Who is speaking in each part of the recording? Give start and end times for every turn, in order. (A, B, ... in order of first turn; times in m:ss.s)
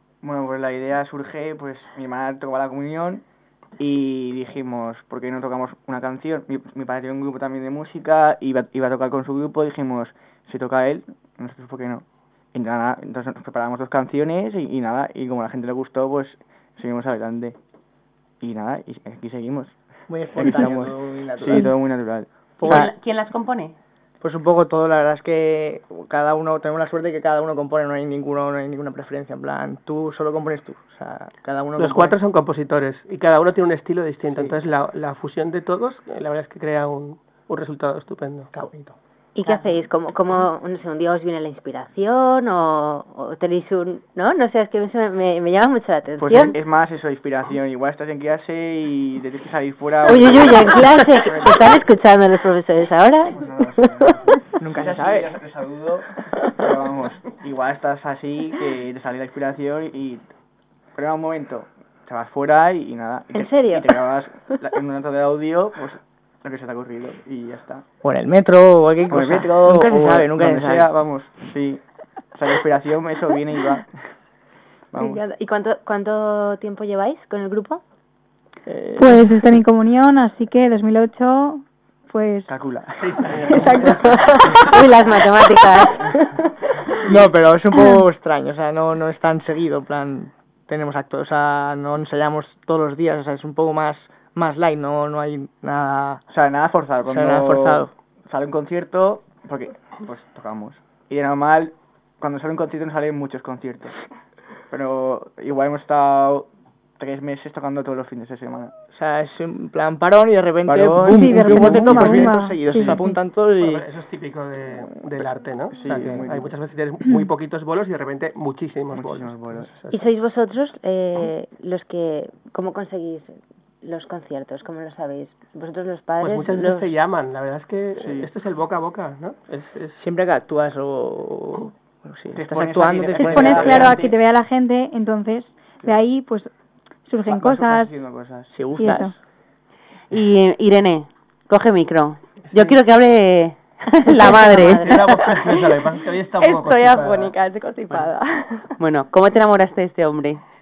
0:00.2-0:03.2 A
0:03.8-0:17.6 A
0:18.4-0:19.8 A
0:20.1-0:21.8 B
0:20.3-0:22.9 A
0:22.6-0:22.9 B
0:22.6-0:23.8 C
0:24.2-0:32.2 B
0:31.8-0:38.5 D
0:38.5-0:39.0 B
0:39.4-0:46.6 E
0:46.2-0:51.8 A
0:50.0-0:54.4 E
0:53.3-0:56.1 A
0:54.6-0:55.4 B
0:56.6-1:00.2 A
1:01.0-1:07.9 A
1:03.3-1:04.0 E
1:08.0-1:10.9 B
1:09.1-1:14.1 A
1:14.9-1:15.2 A
1:15.0-1:17.8 E
1:18.7-1:19.3 B
1:19.0-1:22.5 F
1:22.5-1:24.2 A
1:23.0-1:24.3 D
1:23.5-1:24.8 F
1:24.6-1:26.1 E
1:27.0-1:36.2 B
1:27.7-1:28.0 F
1:36.3-1:44.0 A
1:37.0-1:37.9 B
1:44.7-1:46.5 A
1:47.0-1:48.7 A
1:48.9-1:53.9 B
1:50.7-1:53.0 A
1:51.0-1:53.2 F
1:53.6-1:59.9 D
1:55.7-1:56.5 A
1:59.0-1:59.7 A
1:59.9-2:06.9 E
2:06.2-2:10.0 D
2:08.0-2:08.3 A
2:10.0-2:14.0 B
2:12.4-2:14.2 A
2:13.2-2:16.5 F
2:17.0-2:18.0 F
2:17.2-2:18.5 A
2:18.5-2:19.2 B
2:18.8-2:19.2 F
2:20.1-2:25.0 C
2:24.5-2:27.4 D
2:24.6-2:25.1 E
2:25.2-2:28.7 G
2:28.8-2:30.4 C